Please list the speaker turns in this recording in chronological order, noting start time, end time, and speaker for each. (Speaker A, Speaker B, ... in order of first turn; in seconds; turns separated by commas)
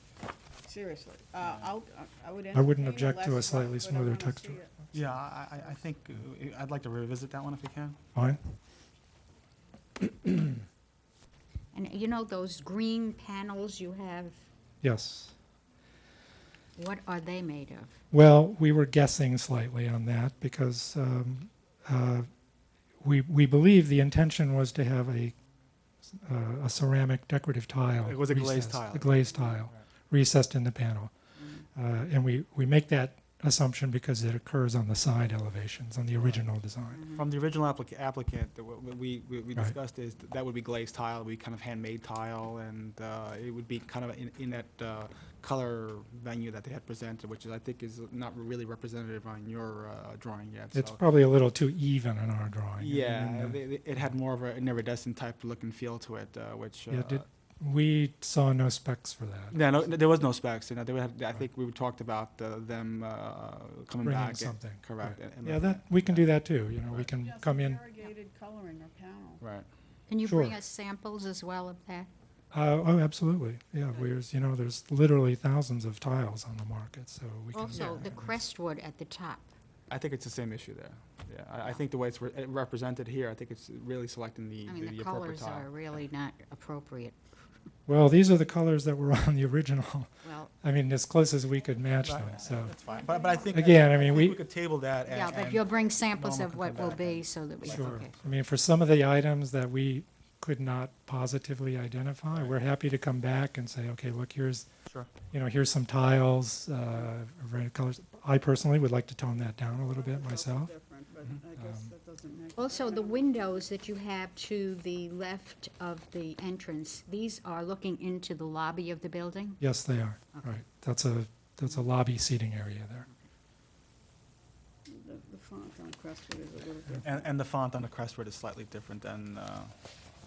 Speaker A: 0.6-4.7, Speaker B: 1.4-1.7, Speaker C: 2.5-4.6, Speaker B: 4.9-8.0, Speaker C: 8.1-8.4, Speaker D: 11.7-14.4, Speaker C: 14.8-15.3, Speaker D: 16.8-18.0, Speaker C: 18.1-22.3, Speaker C: 23.0-25.3, Speaker C: 26.2-31.1, Speaker B: 28.0-29.1, Speaker D: 31.4-31.6, Speaker C: 31.7-37.0, Speaker D: 36.9-37.3, Speaker B: 37.1-51.0, Speaker C: 50.7-53.6, Speaker B: 52.8-57.2, Speaker C: 56.9-59.6, Speaker B: 59.5-67.1, Speaker C: 64.0-67.8, Speaker A: 67.2-69.4, Speaker B: 69.4-69.7, Speaker D: 70.1-72.1, Speaker C: 70.2-70.6, Speaker C: 72.5-78.4, Speaker D: 77.5-79.5, Speaker B: 77.7-78.1, Speaker B: 79.9-85.7, Speaker D: 84.6-87.2, Speaker C: 87.9-92.7, Speaker D: 90.2-90.5, Speaker B: 92.0-98.3, Speaker A: 92.2-94.0, Speaker C: 93.5-94.4, Speaker D: 95.0-98.1, Speaker C: 97.6-104.7, Speaker B: 102.3-102.5, Speaker B: 104.8-105.1, Speaker C: 105.3-110.7, Speaker A: 109.7-113.7, Speaker C: 111.5-111.9, Speaker D: 112.5-119.7, Speaker C: 119.6-123.1, Speaker A: 124.9-127.3, Speaker B: 127.0-129.7